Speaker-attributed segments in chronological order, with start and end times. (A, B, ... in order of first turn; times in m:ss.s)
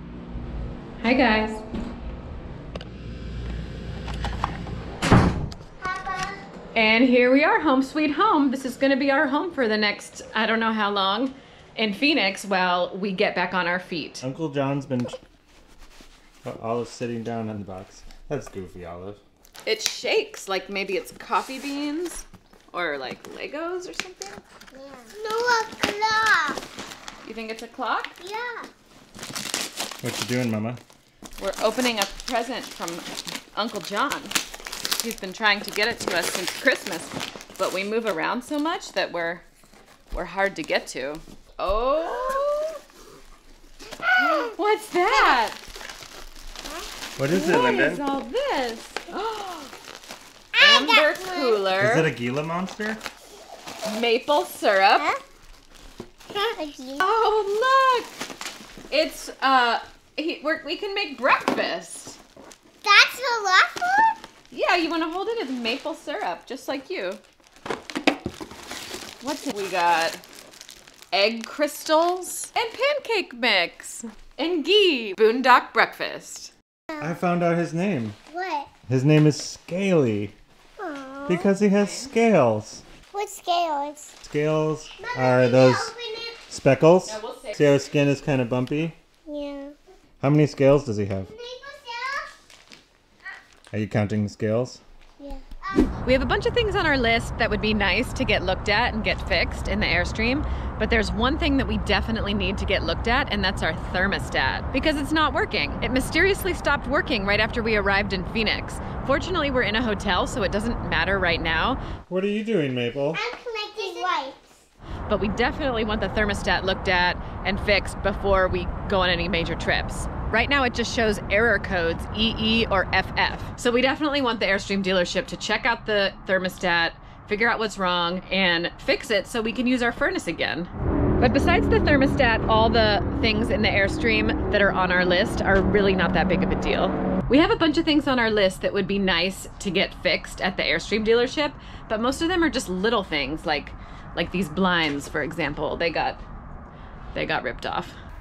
0:01.0-0:01.6 A
0:05.8-0:06.4 B
0:06.7-0:14.2 A
0:14.2-0:15.2 C
0:16.4-0:19.2 C
0:19.6-0:24.4 A
0:24.7-0:26.6 B
0:27.2-0:28.2 A
0:28.2-0:28.7 B
0:30.0-0:30.8 C
0:31.4-0:34.4 A
0:34.9-0:39.4 A
0:40.1-0:42.8 A
0:44.2-0:45.6 A
0:47.2-0:48.0 C
0:47.3-0:49.7 A
0:50.6-0:51.5 B
0:50.6-0:52.1 A
0:51.8-0:53.0 C
0:53.8-0:55.2 A
0:56.3-0:57.1 B
0:57.0-0:58.2 A
0:58.9-1:02.2 A
1:02.8-1:04.2 B
1:04.5-1:07.2 A
1:09.2-1:10.2 A
1:11.1-1:16.5 A
1:17.0-1:18.2 C
1:18.3-1:18.7 B
1:18.9-1:20.3 C
1:20.8-1:21.5 B
1:21.3-1:22.8 C
1:21.7-1:22.1 A
1:23.1-1:24.1 B
1:24.2-1:25.9 C
1:25.0-1:26.4 B
1:26.5-1:29.0 C
1:27.0-1:28.0 A
1:29.3-1:29.7 B
1:30.2-1:31.3 C
1:31.2-1:32.3 B
1:33.7-1:34.8 C
1:35.2-1:35.9 B
1:36.0-1:51.8 A
1:52.1-1:53.2 C
1:53.1-1:54.6 B
1:55.1-2:26.2 A
2:27.1-2:28.0 A